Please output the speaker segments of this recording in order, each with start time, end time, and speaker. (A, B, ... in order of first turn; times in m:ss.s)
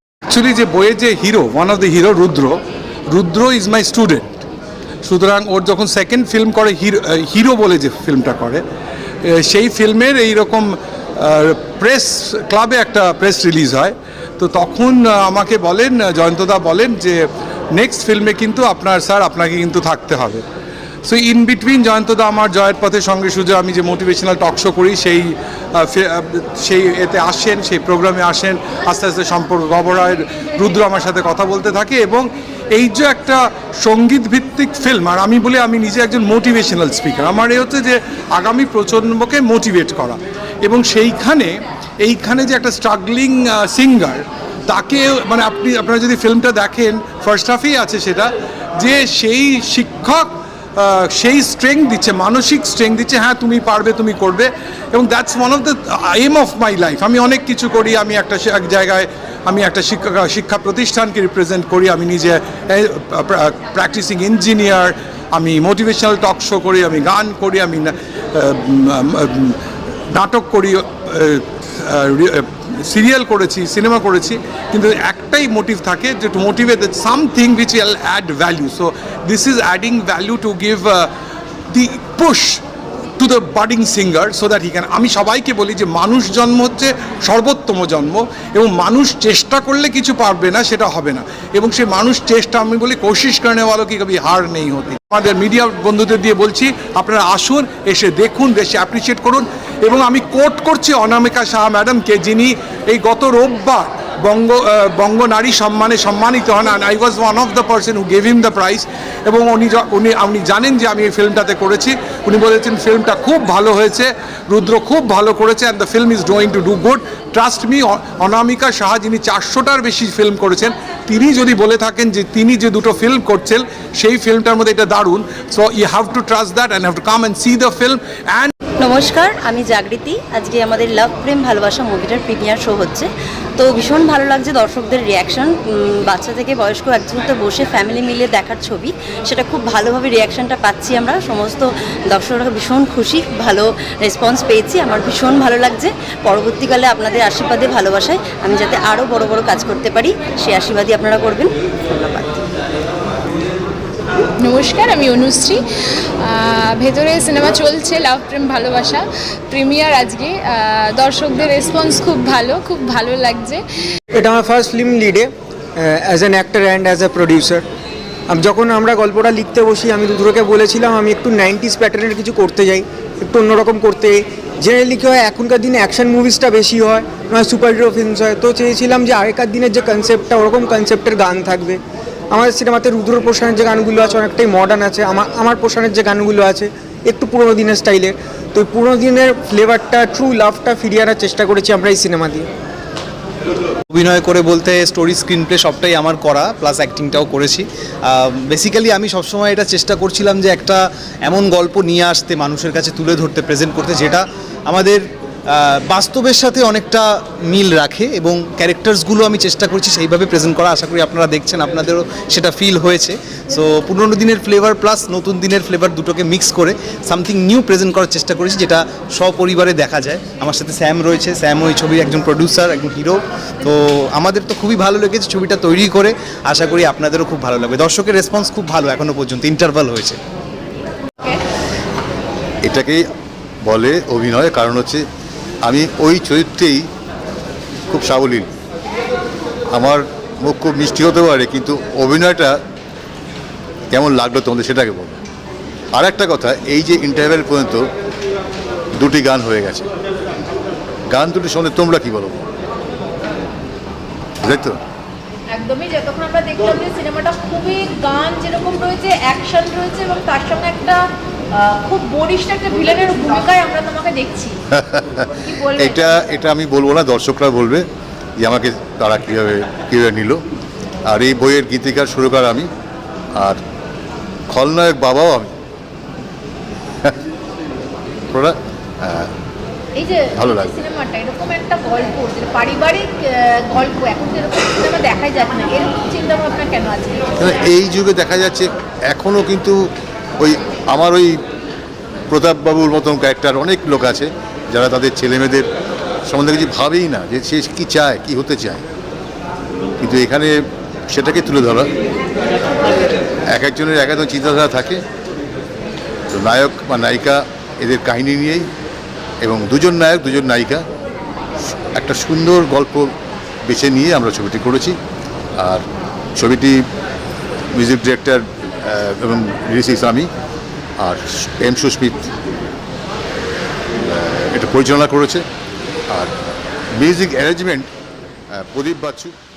0:00.3-0:02.6 A
0:03.1-0:04.4 A
0:05.0-0:08.6 A
0:09.2-0:20.4 A
0:21.0-1:09.6 A
1:10.1-1:21.1 A
1:21.7-1:22.6 A
1:23.2-2:08.5 A
2:08.8-2:32.4 B
2:34.4-2:35.6 C
2:36.2-2:43.6 C
2:44.1-2:47.6 D
2:48.3-3:01.8 D
3:02.3-3:12.5 D
3:13.9-3:50.2 E
3:52.6-3:53.0 F
3:53.6-3:55.0 F
3:55.6-3:56.8 F
3:57.9-3:58.5 F
3:59.7-4:02.6 F
4:03.9-4:05.2 F
4:05.9-4:07.9 F
4:09.0-4:09.8 F
4:11.1-4:12.4 F
4:14.4-4:14.8 F
4:15.5-4:24.6 G
4:24.7-4:27.9 F
4:25.5-4:26.1 G
4:28.4-4:30.4 F
4:31.0-4:32.7 F
4:34.5-4:35.5 F
4:38.3-4:39.3 F
4:40.0-4:47.4 G
4:40.3-4:40.7 F
4:47.4-4:49.8 F
4:50.4-4:51.4 F
4:52.3-4:55.6 F
4:56.3-4:58.8 F
5:00.0-5:00.6 F
5:01.1-5:01.9 F
5:03.5-5:05.0 F
5:06.3-5:08.7 F
5:09.4-5:10.8 F
5:12.0-5:13.1 F
5:13.7-5:15.0 F
5:16.4-5:16.8 F
5:17.7-5:20.3 F
5:21.0-5:22.3 F
5:24.1-5:25.4 F
5:27.0-5:27.9 F
5:28.5-5:29.3 F